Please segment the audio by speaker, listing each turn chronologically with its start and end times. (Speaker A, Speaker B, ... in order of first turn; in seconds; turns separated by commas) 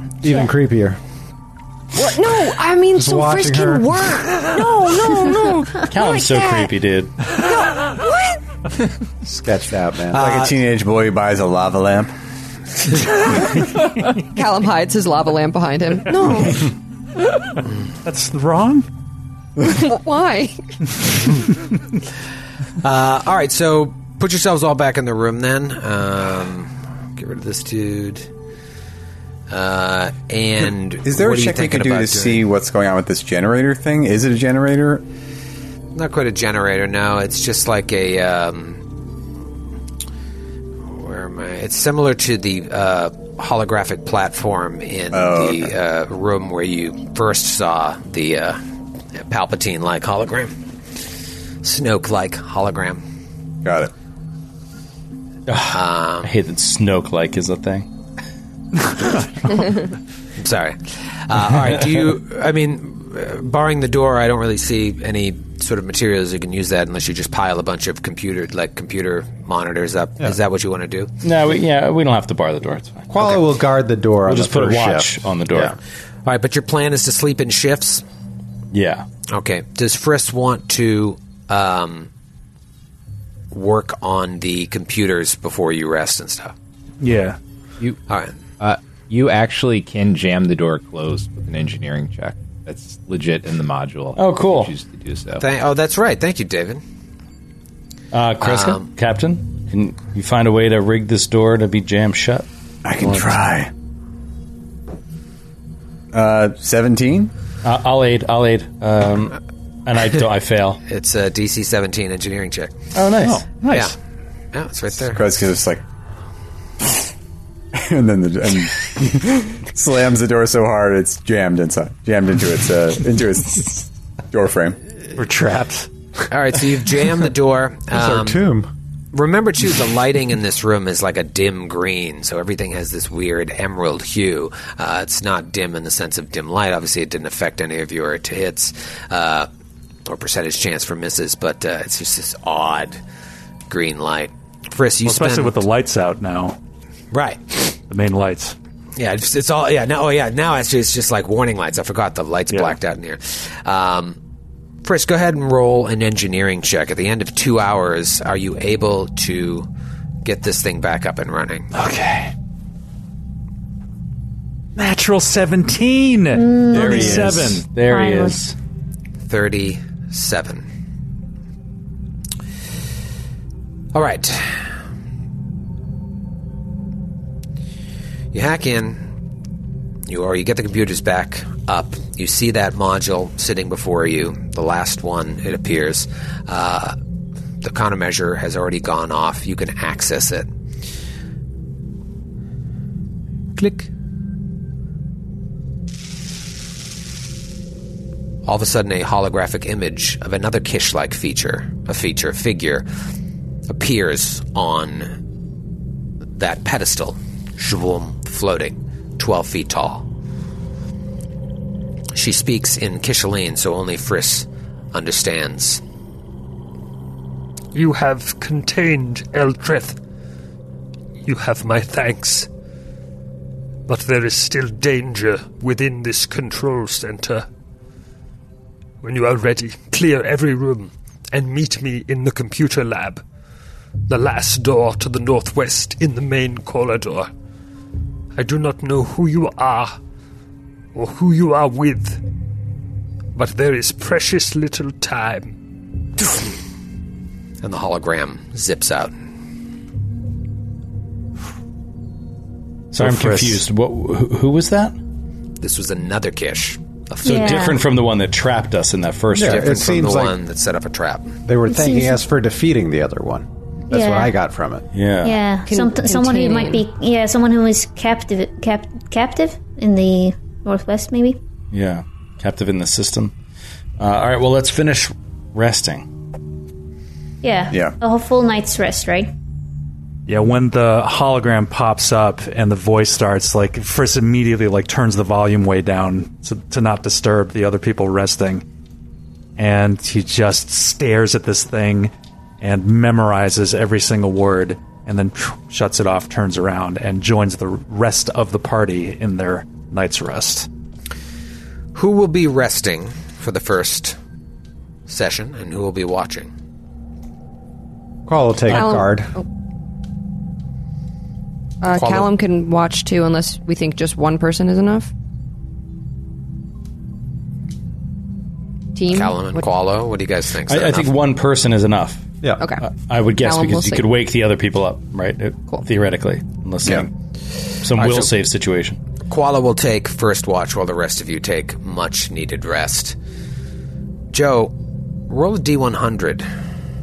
Speaker A: 0.2-1.0, Speaker B: 1.9-6.7, Speaker A: 3.0-3.9, Speaker C: 5.8-7.3, Speaker B: 7.3-8.3, Speaker A: 9.2-10.2, Speaker D: 10.1-10.5, Speaker E: 10.1-12.1, Speaker B: 14.2-16.7, Speaker F: 18.0-18.9, Speaker B: 19.6-20.6, Speaker D: 22.8-28.3, Speaker D: 29.5-32.4, Speaker E: 31.0-35.0, Speaker D: 36.0-38.8, Speaker D: 40.9-48.6, Speaker E: 45.1-45.7, Speaker D: 49.1-50.5, Speaker D: 51.6-53.0, Speaker E: 53.6-53.9, Speaker C: 55.5-57.9, Speaker D: 55.7-56.3, Speaker D: 60.4-71.1, Speaker C: 71.2-73.7, Speaker A: 73.1-75.7, Speaker C: 74.2-75.8, Speaker D: 76.3-78.0, Speaker C: 78.7-79.1, Speaker D: 79.3-82.1, Speaker D: 83.5-86.5, Speaker F: 87.0-87.4, Speaker D: 88.1-88.3, Speaker G: 88.6-95.4, Speaker C: 94.2-94.7, Speaker D: 95.4-96.8, Speaker C: 98.1-102.5, Speaker D: 98.4-98.9, Speaker E: 102.8-103.7, Speaker E: 106.1-107.3, Speaker C: 107.6-110.8, Speaker D: 110.9-112.7, Speaker C: 113.0-113.5, Speaker F: 113.2-113.9, Speaker D: 113.7-114.0, Speaker D: 114.5-115.2, Speaker E: 115.1-115.8, Speaker E: 117.7-124.8, Speaker F: 125.2-125.9, Speaker D: 126.3-128.4, Speaker A: 127.9-128.7, Speaker D: 129.1-139.5, Speaker D: 140.1-143.0, Speaker D: 143.7-145.6, Speaker F: 145.0-146.6, Speaker D: 147.1-147.8, Speaker F: 147.9-148.6, Speaker D: 149.0-154.2, Speaker F: 152.5-152.8, Speaker D: 154.8-159.7, Speaker D: 160.2-161.7, Speaker F: 161.7-162.3, Speaker F: 164.8-167.7, Speaker H: 166.3-168.4, Speaker C: 166.7-168.6, Speaker D: 169.3-170.7, Speaker D: 173.9-174.7, Speaker D: 178.3-179.0, Speaker D: 180.1-187.0, Speaker D: 187.6-190.5, Speaker D: 193.6-193.9, Speaker D: 198.4-202.8, Speaker D: 203.7-205.1, Speaker D: 206.4-210.1, Speaker D: 212.1-215.8, Speaker I: 217.7-220.0, Speaker I: 221.2-222.5, Speaker I: 223.9-227.5, Speaker I: 229.0-233.2, Speaker I: 234.1-237.3, Speaker I: 238.4-240.0, Speaker I: 240.9-242.2, Speaker I: 243.3-245.6, Speaker D: 247.6-249.1, Speaker C: 252.9-255.0, Speaker F: 253.0-253.6, Speaker D: 255.6-257.8, Speaker H: 257.2-257.8, Speaker C: 257.2-259.8, Speaker A: 259.4-260.4, Speaker D: 259.4-261.4, Speaker A: 261.4-264.9, Speaker H: 261.7-262.2, Speaker H: 263.9-264.3, Speaker C: 264.9-265.4, Speaker H: 265.2-271.4, Speaker B: 265.7-266.8, Speaker C: 271.7-273.3, Speaker C: 274.0-276.1, Speaker H: 277.4-279.3, Speaker F: 280.3-288.6, Speaker F: 289.6-300.7, Speaker D: 301.9-304.2, Speaker D: 305.1-306.5, Speaker A: 308.3-309.3, Speaker C: 308.7-309.0, Speaker B: 308.7-309.5, Speaker B: 311.8-315.1, Speaker D: 311.9-312.3, Speaker B: 318.9-319.6, Speaker D: 319.1-321.1, Speaker C: 320.7-322.2, Speaker B: 322.6-322.9, Speaker C: 322.8-327.1, Speaker B: 323.4-324.1, Speaker C: 327.8-329.0, Speaker D: 327.9-328.3, Speaker D: 329.3-333.2, Speaker D: 334.3-334.7, Speaker D: 335.3-336.5